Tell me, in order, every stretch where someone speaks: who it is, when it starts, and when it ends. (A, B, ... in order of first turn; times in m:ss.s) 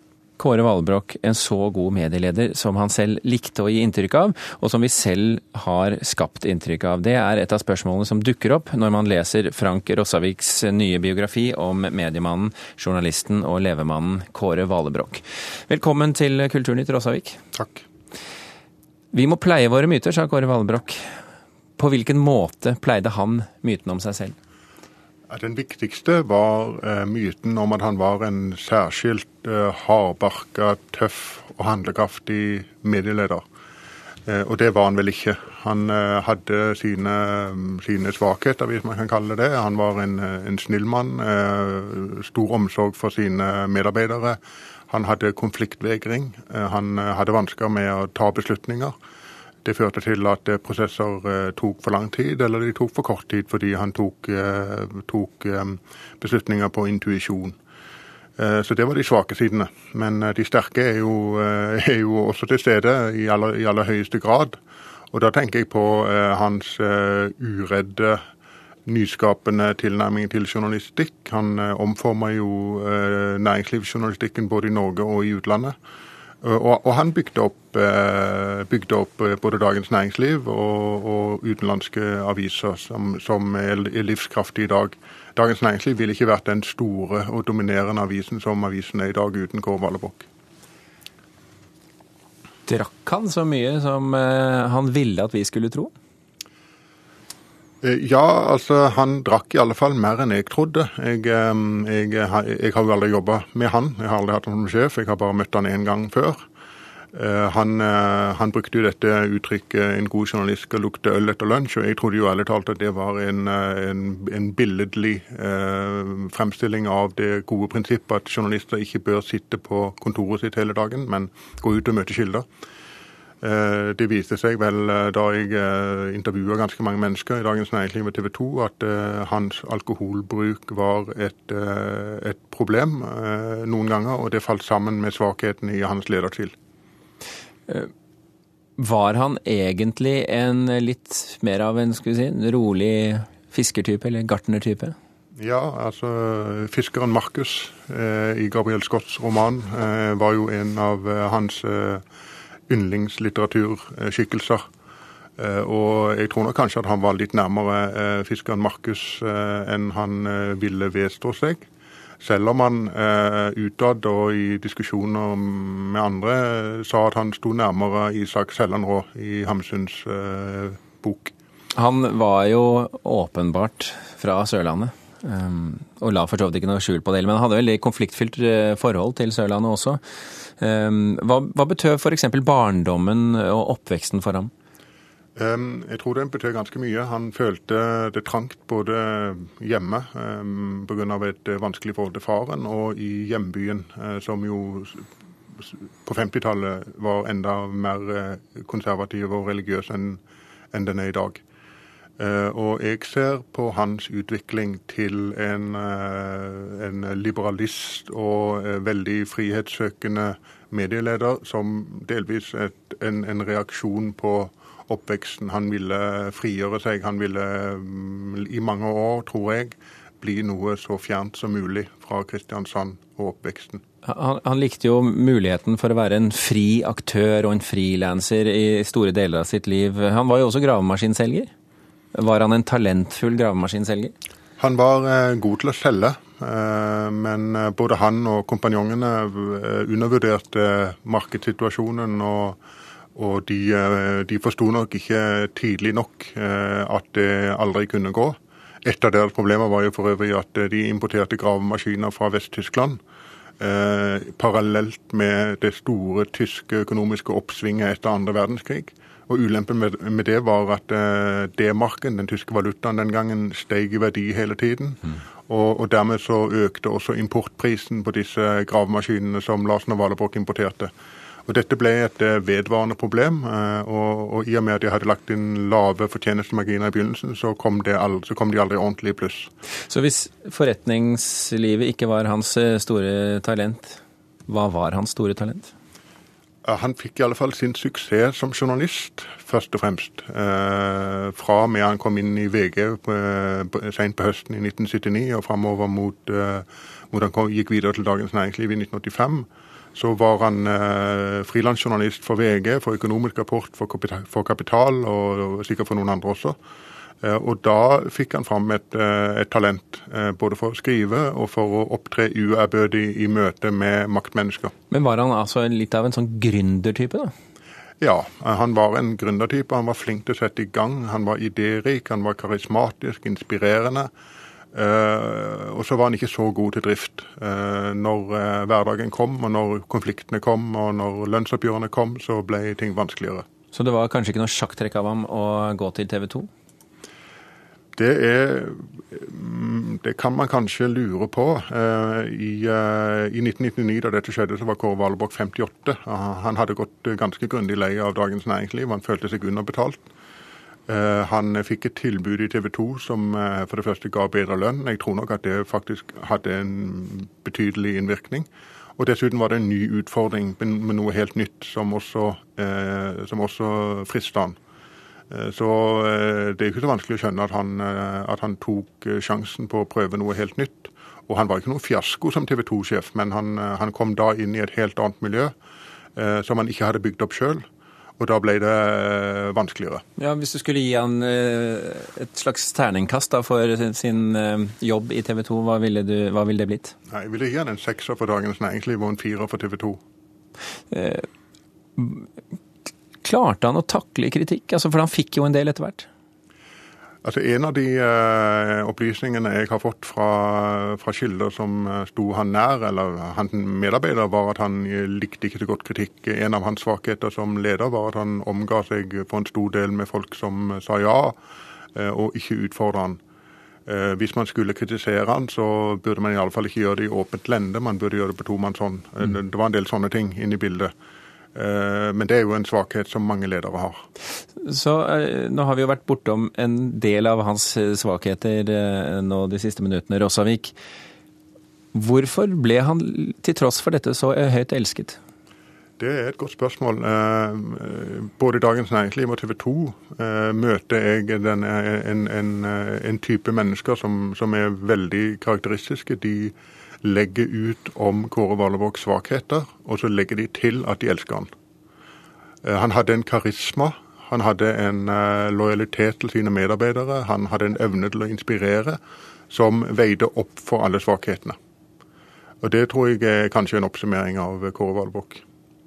0:00.4-0:17.4 A
0:17.5-0:17.8 B
0:19.1-0:21.0 A
0:21.8-0:24.3 A
0:25.3-0:33.4 B
0:34.2-0:48.9 B
0:49.6-0:57.6 B
0:58.4-1:04.6 B
1:05.1-1:08.2 B
1:08.8-1:15.8 B
1:16.4-1:30.3 B
1:32.7-1:35.9 A
1:37.8-1:46.4 B
1:47.1-2:02.4 B
2:03.4-2:16.5 B
2:18.8-2:24.9 A
2:25.4-2:32.0 B
2:32.7-2:34.6 B
2:35.4-2:41.6 B
2:42.2-2:51.3 B
2:51.7-3:04.5 A
3:05.4-3:20.2 B
3:20.7-3:21.4 B
3:22.2-3:43.8 B
3:44.0-3:51.5 A
3:52.1-3:54.1 A
3:54.6-4:02.6 B
4:03.1-4:13.0 B
4:13.6-4:30.9 B
4:31.4-4:39.5 B
4:39.9-4:45.7 A
4:46.6-5:06.6 B
5:07.2-5:14.7 B
5:14.9-5:17.3 A
5:18.0-5:24.1 B
5:24.7-5:33.4 B
5:33.7-5:36.5 A
5:38.0-5:50.0 B
5:50.9-6:04.6 B
6:05.3-6:15.5 B
6:16.1-6:17.6 B
6:18.2-6:20.0 B
6:20.2-6:26.9 A
6:27.1-6:30.0 B
6:30.9-6:31.2 A
6:32.0-6:32.2 A
6:33.2-6:36.1 A
6:37.2-6:51.4 B
6:51.9-6:53.2 B
6:53.8-7:00.9 B
7:01.5-7:04.0 B
7:04.6-7:10.7 A
7:11.9-7:15.2 A
7:16.0-7:31.5 B
7:32.6-7:39.0 B
7:39.5-7:41.6 B
7:42.6-7:45.4 B